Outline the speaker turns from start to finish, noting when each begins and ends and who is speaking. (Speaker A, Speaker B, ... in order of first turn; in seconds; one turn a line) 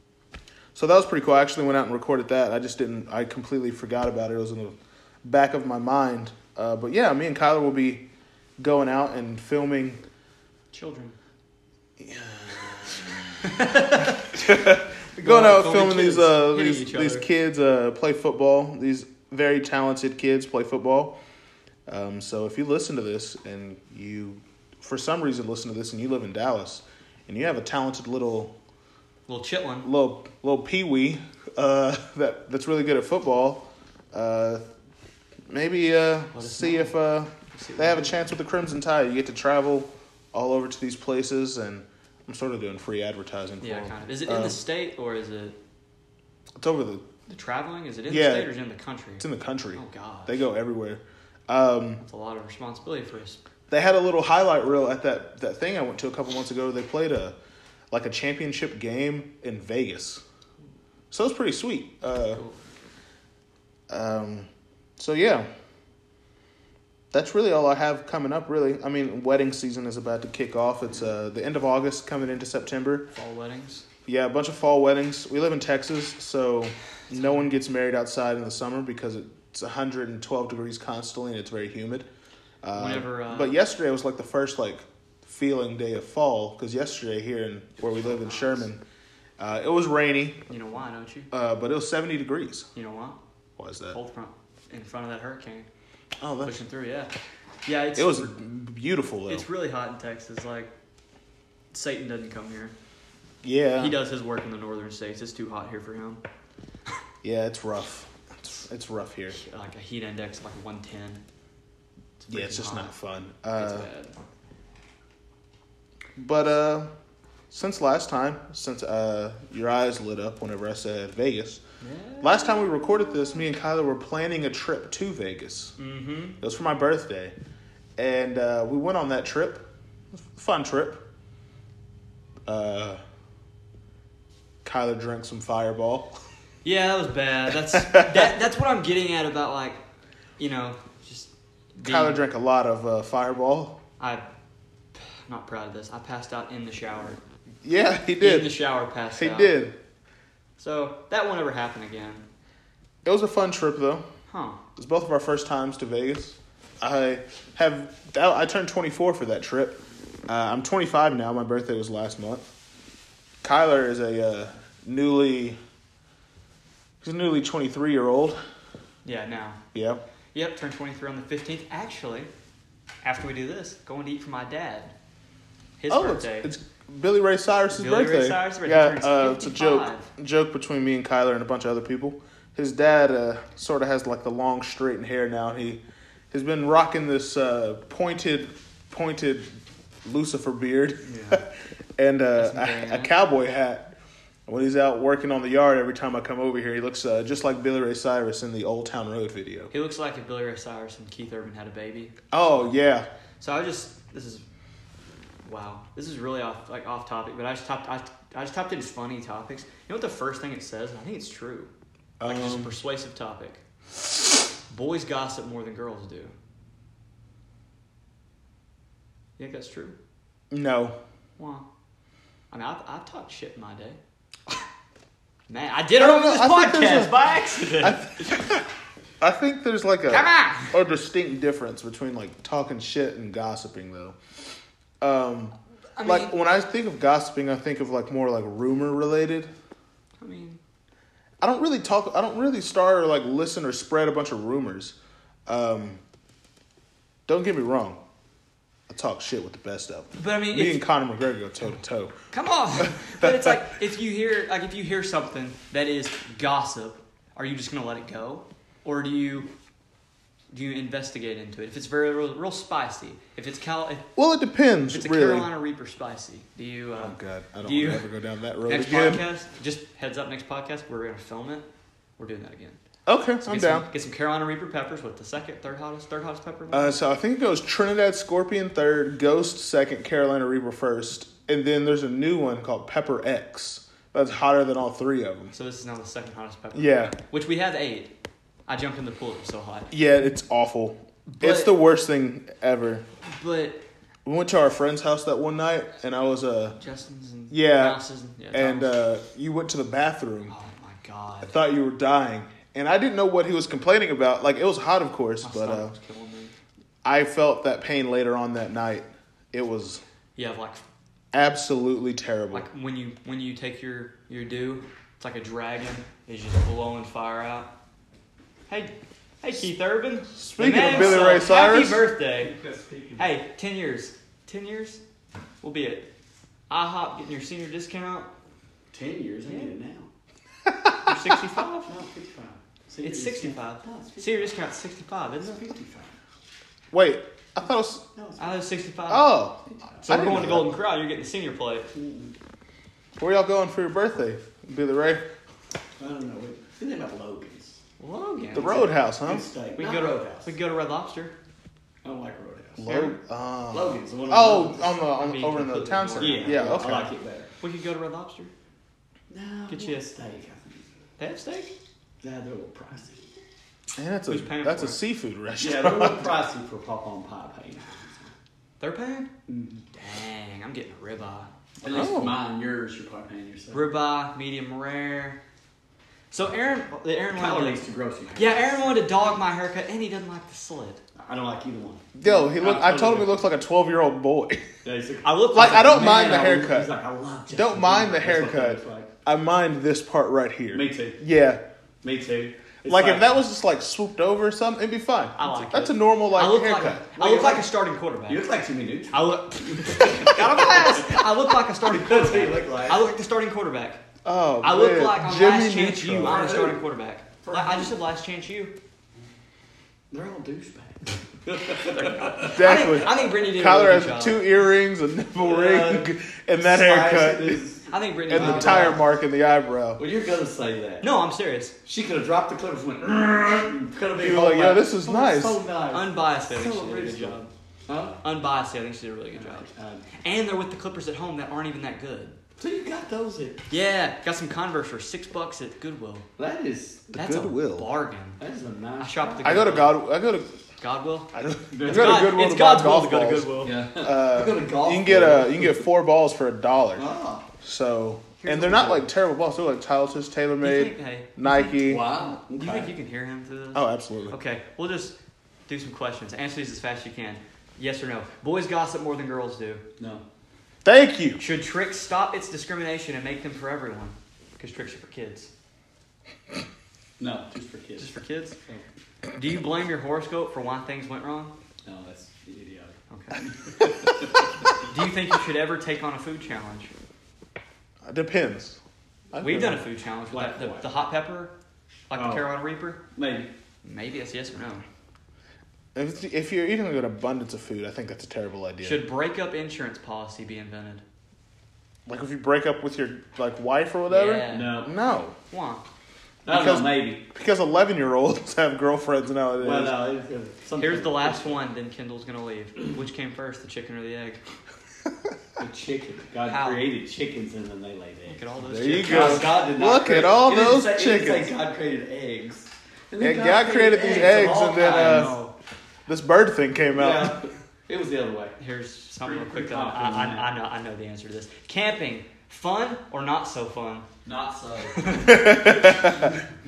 Speaker A: 0.7-8.1
Speaker A: 8.6-10.0
Speaker B: 10.7-11.2
Speaker A: 12.0-13.0
Speaker B: 13.4-17.3
Speaker A: 14.3-21.2
Speaker A: 21.9-28.6
Speaker B: 29.3-29.9
Speaker A: 29.8-34.6
Speaker A: 35.5-44.6
Speaker B: 36.3-38.2
Speaker B: 43.6-45.6
Speaker A: 46.6-47.1
Speaker B: 47.3-50.4
Speaker A: 48.1-48.5
Speaker A: 49.2-52.0
Speaker B: 52.0-53.4
Speaker A: 53.7-57.4
Speaker A: 57.9-60.2
Speaker A: 61.1-62.4
Speaker B: 62.3-62.6
Speaker A: 63.9-65.5
Speaker A: 67.1-73.1
Speaker B: 73.1-73.8
Speaker A: 74.1-82.1
Speaker B: 77.1-77.5
Speaker A: 82.6-88.8
Speaker B: 82.8-83.6
Speaker B: 87.8-88.7
Speaker A: 89.4-90.4
Speaker B: 90.5-91.3
Speaker A: 91.3-92.7
Speaker B: 92.8-93.2
Speaker A: 93.6-94.0
Speaker B: 93.9-95.7
Speaker A: 96.2-96.6
Speaker B: 96.4-97.1
Speaker B: 97.7-98.3
Speaker A: 98.0-99.5
Speaker B: 99.3-100.7
Speaker B: 101.7-102.7
Speaker A: 103.4-104.0
Speaker B: 103.8-106.2
Speaker A: 107.2-109.4
Speaker B: 109.3-111.2
Speaker B: 112.2-112.9
Speaker A: 112.3-113.9
Speaker B: 113.5-114.2
Speaker A: 116.2-116.9
Speaker A: 117.5-121.6
Speaker B: 121.8-122.8
Speaker A: 122.2-125.8
Speaker B: 125.8-126.4
Speaker A: 126.4-127.3
Speaker A: 128.0-131.0
Speaker A: 132.5-133.0
Speaker A: 134.6-136.2
Speaker B: 136.6-139.8
Speaker A: 137.7-138.3
Speaker B: 140.4-142.2
Speaker A: 141.8-143.8
Speaker B: 144.0-144.2
Speaker B: 144.9-147.2
Speaker A: 147.6-148.6
Speaker B: 148.2-149.6
Speaker A: 149.2-149.8
Speaker B: 150.6-152.3
Speaker A: 153.1-154.1
Speaker B: 154.3-154.6
Speaker A: 154.8-162.4
Speaker A: 163.4-165.6
Speaker A: 167.0-168.4
Speaker B: 169.1-169.6
Speaker A: 169.7-170.0
Speaker B: 170.3-172.3
Speaker B: 173.0-174.9
Speaker B: 175.8-176.5
Speaker A: 175.9-191.4
Speaker B: 177.7-180.1
Speaker B: 191.1-191.4
Speaker A: 192.0-193.9
Speaker B: 192.4-193.1
Speaker A: 194.5-199.7
Speaker B: 199.7-202.7
Speaker A: 202.3-203.1
Speaker B: 203.4-204.4
Speaker B: 205.4-211.7
Speaker A: 212.2-212.8
Speaker B: 212.2-213.6
Speaker B: 214.7-216.3
Speaker B: 219.4-220.0
Speaker A: 220.5-221.0
Speaker B: 221.4-221.7
Speaker B: 222.5-224.0
Speaker B: 225.5-228.3
Speaker A: 226.0-228.7
Speaker A: 229.2-234.2
Speaker B: 230.1-230.8
Speaker A: 235.0-239.5
Speaker B: 236.0-236.3
Speaker B: 240.2-240.6
Speaker A: 241.4-245.0
Speaker A: 245.5-246.0
Speaker A: 247.3-248.0
Speaker A: 248.9-252.2
Speaker B: 250.2-250.9
Speaker B: 252.3-259.5
Speaker A: 253.1-253.6
Speaker B: 260.5-264.1
Speaker A: 264.2-265.5
Speaker B: 264.9-268.1
Speaker A: 267.0-269.2
Speaker B: 268.7-271.7
Speaker B: 272.2-272.8
Speaker A: 273.1-273.9
Speaker B: 273.4-276.9
Speaker A: 276.7-285.5
Speaker B: 285.5-288.1
Speaker A: 286.8-287.1
Speaker B: 288.7-289.9
Speaker A: 289.9-293.1
Speaker B: 291.3-291.8
Speaker B: 293.3-293.8
Speaker A: 294.2-296.8
Speaker B: 296.8-299.0
Speaker A: 297.5-298.0
Speaker A: 298.5-300.5
Speaker B: 300.5-301.6
Speaker A: 301.4-305.9
Speaker B: 305.4-306.5
Speaker A: 307.0-310.0
Speaker B: 310.4-310.8
Speaker A: 311.3-312.7
Speaker B: 312.5-317.7
Speaker B: 318.7-322.5
Speaker A: 320.4-322.1
Speaker C: 320.9-321.4
Speaker C: 322.4-323.3
Speaker B: 323.2-325.0
Speaker B: 325.6-326.1
Speaker B: 326.7-328.3
Speaker C: 328.9-330.1
Speaker B: 329.5-329.7
Speaker A: 330.7-331.3
Speaker B: 331.0-331.9
Speaker C: 331.9-334.6
Speaker B: 333.0-335.7
Speaker C: 335.4-336.1
Speaker A: 336.9-338.0
Speaker C: 338.1-338.6
Speaker B: 338.4-339.4
Speaker A: 339.1-340.8
Speaker C: 339.7-340.2
Speaker B: 340.1-341.9
Speaker C: 341.9-342.3
Speaker A: 343.2-345.2
Speaker C: 346.0-347.8
Speaker B: 348.0-349.0
Speaker A: 348.5-349.4
Speaker C: 348.6-350.5
Speaker B: 349.8-351.3
Speaker C: 352.0-353.1
Speaker A: 352.8-357.1
Speaker C: 353.7-354.9
Speaker B: 355.1-357.0
Speaker C: 356.2-357.5
Speaker B: 357.6-358.5
Speaker C: 359.3-360.9
Speaker B: 359.7-360.1
Speaker B: 361.2-361.7
Speaker C: 362.2-363.2
Speaker A: 364.0-366.3
Speaker B: 364.3-365.0
Speaker C: 365.6-368.3
Speaker B: 368.8-369.3
Speaker C: 369.5-369.9
Speaker B: 369.9-371.5
Speaker C: 371.8-373.9
Speaker A: 371.9-372.4
Speaker B: 373.7-375.4
Speaker B: 376.3-377.8
Speaker C: 377.4-379.1
Speaker B: 378.4-381.0
Speaker C: 381.2-383.4
Speaker A: 382.2-384.7
Speaker C: 384.8-389.1
Speaker B: 385.2-386.5
Speaker A: 385.5-386.9
Speaker A: 387.5-391.6
Speaker C: 390.7-391.2
Speaker C: 392.0-393.3
Speaker A: 392.9-397.2
Speaker B: 395.4-398.4
Speaker C: 397.2-397.7
Speaker C: 398.3-401.3
Speaker B: 399.1-404.0
Speaker C: 401.8-403.1
Speaker A: 404.2-406.6
Speaker B: 404.6-408.8
Speaker C: 406.2-406.8
Speaker C: 407.4-407.9
Speaker C: 410.1-412.6
Speaker B: 411.9-414.5
Speaker A: 412.5-417.6
Speaker C: 415.4-419.1
Speaker B: 417.9-419.0
Speaker A: 418.3-420.0
Speaker C: 420.0-421.1
Speaker B: 421.0-421.8
Speaker C: 421.9-428.2
Speaker A: 424.2-425.6
Speaker B: 425.9-427.5
Speaker B: 428.2-432.4
Speaker C: 429.3-430.1
Speaker C: 432.6-433.7
Speaker B: 433.7-436.3
Speaker C: 436.4-437.1
Speaker A: 437.1-437.9
Speaker B: 437.1-438.4
Speaker C: 438.4-439.8
Speaker B: 439.0-440.0
Speaker A: 439.4-440.5
Speaker B: 440.8-443.8
Speaker A: 441.3-447.1
Speaker C: 441.7-442.3
Speaker C: 443.6-445.9
Speaker C: 447.0-447.5
Speaker A: 447.6-452.1
Speaker B: 448.4-449.1
Speaker B: 450.6-455.2
Speaker C: 451.8-452.9
Speaker A: 453.7-454.4
Speaker B: 455.7-459.8
Speaker A: 460.9-461.4
Speaker B: 461.4-465.5
Speaker C: 467.2-468.2
Speaker B: 468.0-468.6
Speaker B: 469.4-471.5
Speaker C: 471.9-474.7
Speaker B: 473.1-473.5
Speaker B: 474.8-476.9
Speaker A: 478.0-478.8
Speaker A: 479.3-479.8
Speaker B: 479.4-481.5
Speaker C: 480.3-481.0
Speaker B: 482.1-483.0
Speaker C: 482.1-482.5
Speaker C: 483.1-483.5
Speaker B: 483.8-484.8
Speaker A: 485.9-489.1
Speaker B: 488.8-491.0
Speaker A: 492.1-495.4
Speaker B: 494.1-494.9
Speaker C: 494.5-494.9
Speaker B: 495.5-495.8
Speaker C: 496.5-497.2
Speaker A: 496.5-500.0
Speaker C: 499.6-501.6
Speaker B: 500.8-504.4
Speaker C: 505.6-508.4
Speaker B: 506.5-506.9
Speaker B: 508.3-509.6
Speaker A: 508.6-511.5
Speaker C: 509.0-515.4
Speaker A: 513.2-515.4
Speaker B: 514.1-515.5
Speaker A: 516.1-517.4
Speaker C: 517.0-518.6
Speaker B: 518.6-524.1
Speaker C: 519.2-520.5
Speaker C: 524.2-525.1
Speaker B: 525.0-525.6
Speaker A: 525.2-526.4